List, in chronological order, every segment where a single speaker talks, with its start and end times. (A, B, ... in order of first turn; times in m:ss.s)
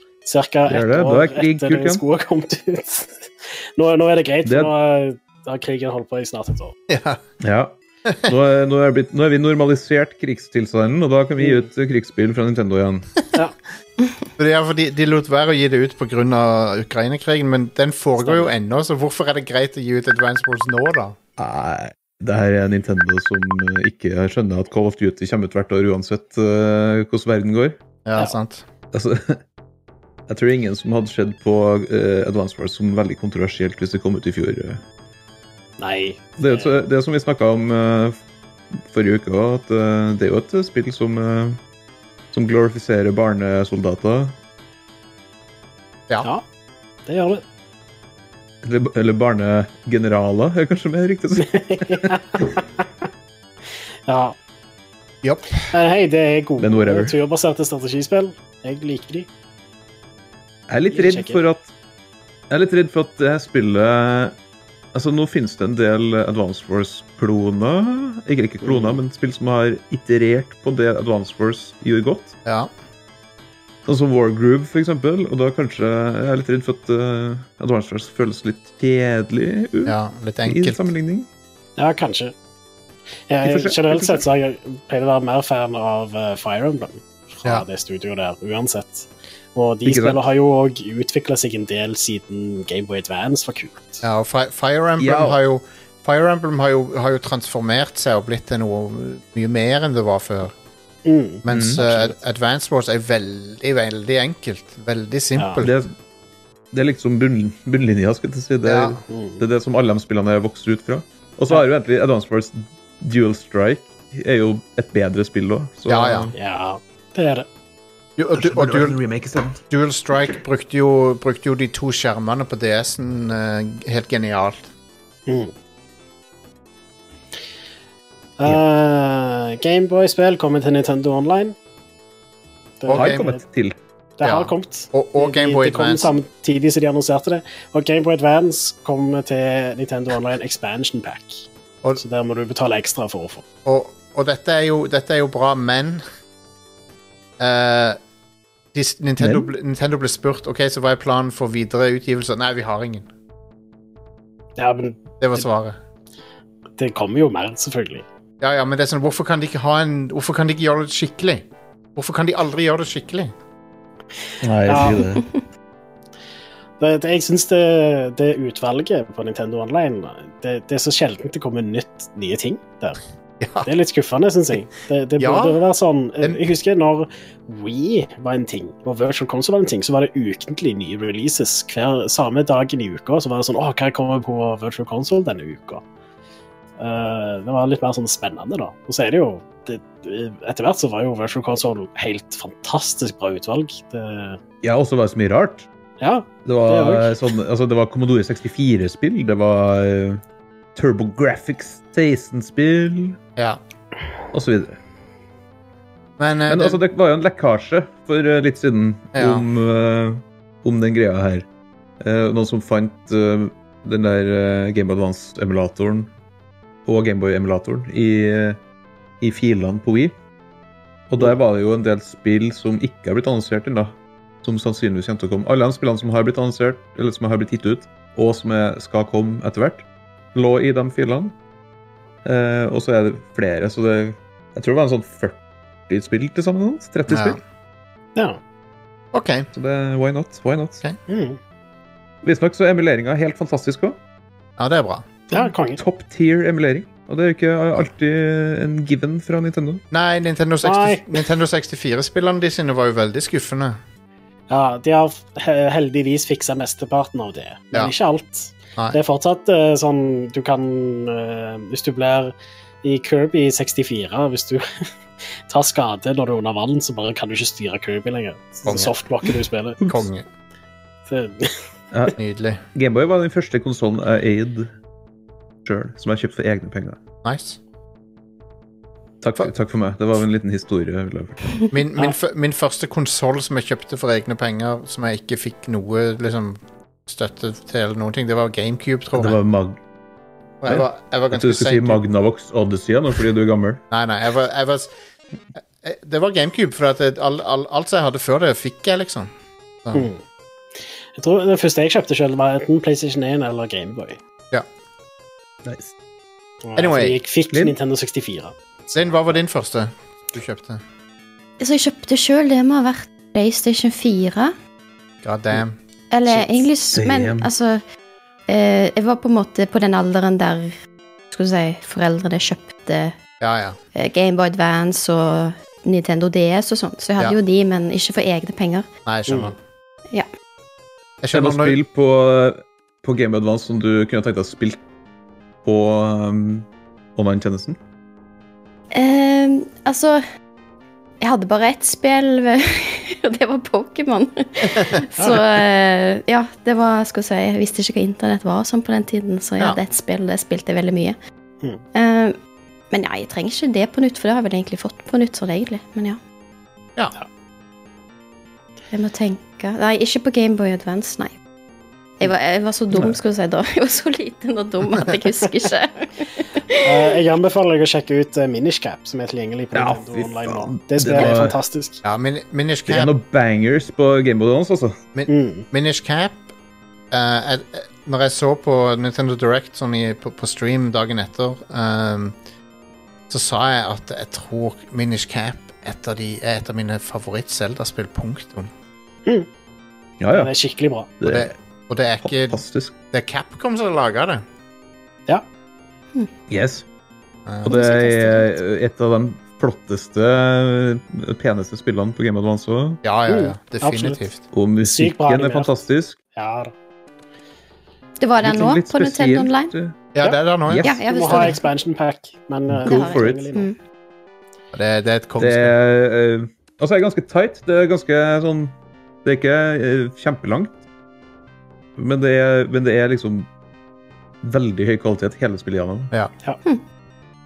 0:00.2-0:06.8 A
0:00.7-0:02.0 B
0:04.4-0:04.7 B
0:06.9-0:07.2 C
0:07.4-0:13.1 B
0:11.4-0:11.7 A
0:14.4-0:21.2 C
0:18.2-0:18.5 A
0:21.4-0:27.8 B
0:28.0-0:28.6 C
0:28.9-0:29.4 B
0:30.3-0:34.8 B
0:35.8-0:36.8 A
0:36.4-0:38.2 B
0:38.7-0:41.6 B
0:42.3-0:44.4 B
0:47.1-0:47.4 A
0:48.6-0:52.4 B
0:51.4-0:52.9 A
0:54.1-0:54.4 A
0:55.2-0:55.6 C
0:55.7-0:59.3 A
0:56.6-0:57.2 B
1:00.7-1:01.7 B
1:00.9-1:01.4 A
1:02.5-1:04.4 B
1:04.9-1:12.4 B
1:08.6-1:09.0 A
1:12.4-1:12.7 C
1:13.8-1:21.3 B
1:19.8-1:20.9 C
1:21.8-1:22.3 A
1:23.3-1:34.0 A
1:23.4-1:24.3 B
1:29.8-1:30.2 B
1:34.0-1:40.5 C
1:35.0-1:35.4 B
1:41.0-1:42.0 A
1:41.4-1:45.8 C
1:41.5-1:42.1 B
1:45.4-1:45.6 A
1:45.6-1:45.9 B
1:46.7-1:56.3 B
1:48.6-1:49.0 C
1:49.1-1:49.4 A
1:55.9-1:56.3 C
1:56.4-1:57.5 A
1:58.2-1:59.0 C
1:58.3-1:59.6 B
1:59.6-2:04.7 C
2:05.3-2:05.5 A
2:08.4-2:11.6 A
2:12.8-2:13.4 A
2:12.8-2:13.3 C
2:12.9-2:13.8 B
2:14.2-2:21.5 A
2:14.2-2:16.2 C
2:22.0-2:23.4 A
2:23.7-2:26.0 C
2:27.4-2:28.0 C
2:28.7-2:33.1 C
2:29.2-2:29.5 B
2:34.6-2:35.4 A
2:35.2-2:35.8 C
2:36.8-2:38.1 A
2:38.4-2:41.4 C
2:42.0-2:43.3 C
2:44.4-2:45.3 B
2:44.7-2:45.0 A
2:46.8-2:53.0 A
2:53.4-2:53.7 C
2:53.6-3:05.8 A
2:55.2-2:55.6 C
3:06.8-3:14.4 A
3:14.6-3:15.7 B
3:16.0-3:17.2 A
3:16.4-3:20.2 B
3:20.8-3:23.2 B
3:24.3-3:24.8 B
3:26.2-3:26.8 C
3:26.5-3:31.5 B
3:29.1-3:29.4 C
3:32.0-3:36.1 B
3:36.9-3:38.6 B
3:39.2-3:40.2 B
3:41.1-3:51.4 B
3:52.2-3:57.4 B
3:57.1-3:57.4 C
3:59.1-3:59.5 C
3:59.5-4:00.8 B
4:01.1-4:01.4 A
4:02.2-4:04.0 B
4:04.6-4:05.1 C
4:05.3-4:09.8 B
4:05.3-4:05.8 A
4:09.9-4:13.8 C
4:10.6-4:11.2 A
4:14.5-4:24.8 A
4:25.5-4:29.8 A
4:28.7-4:28.9 C
4:29.8-4:30.2 C
4:31.1-4:31.6 A
4:31.9-4:32.2 B
4:32.2-4:32.6 C
4:32.7-4:34.7 B
4:35.6-4:37.0 B
4:37.2-4:37.6 C
4:39.2-4:41.5 B
4:41.7-4:49.4 C
4:49.1-4:49.8 B
4:50.6-4:52.0 C
4:50.7-4:53.8 B
4:53.9-4:54.9 C
4:55.8-4:59.3 C
4:59.9-5:00.2 A
5:01.2-5:04.2 A
5:05.6-5:06.0 B
5:06.6-5:08.6 A
5:06.8-5:07.2 C
5:07.5-5:07.8 B
5:08.9-5:10.8 C
5:11.6-5:14.5 D
5:15.2-5:15.8 C
5:16.1-5:17.8 D
5:16.9-5:17.5 B
5:18.5-5:20.7 D
5:21.3-5:23.2 D
5:23.4-5:23.8 C
5:24.0-5:28.9 D
5:29.1-5:29.6 C
5:29.3-5:29.5 A
5:31.2-5:31.8 C
5:31.3-5:34.8 B
5:35.6-5:37.8 B
5:38.9-5:40.2 D
5:41.2-5:51.2 D
5:45.2-5:45.6 A
5:52.0-5:52.4 D
5:52.9-5:56.2 D
5:58.9-6:01.4 D
6:02.2-6:07.1 D
6:02.9-6:03.2 B
6:06.8-6:12.0 A
6:09.7-6:11.6 B
6:12.0-6:13.1 C
6:12.9-6:15.0 B
6:15.2-6:16.4 C
6:15.3-6:15.7 A
6:17.1-6:22.4 C
6:23.3-6:28.7 C
6:30.2-6:30.5 B
6:30.3-6:31.1 A
6:31.2-6:31.5 B
6:31.2-6:34.4 C
6:32.2-6:32.9 B
6:36.5-6:36.9 B
6:37.5-6:37.7 C
6:37.6-6:38.5 D
6:37.6-6:43.0 B
6:43.0-6:44.4 C
6:43.3-6:44.2 A
6:44.5-6:46.2 B
6:44.8-6:45.8 A
6:46.4-6:46.7 A
6:48.2-6:49.7 D
6:48.4-6:50.0 B
6:50.2-6:50.9 C
6:50.7-6:51.3 B
6:50.8-6:51.6 D
6:51.1-6:53.7 A
6:52.8-6:53.5 B
6:52.9-6:53.8 D
6:54.7-6:55.8 C
6:55.4-7:00.8 B
7:02.0-7:03.5 B
7:04.4-7:06.1 B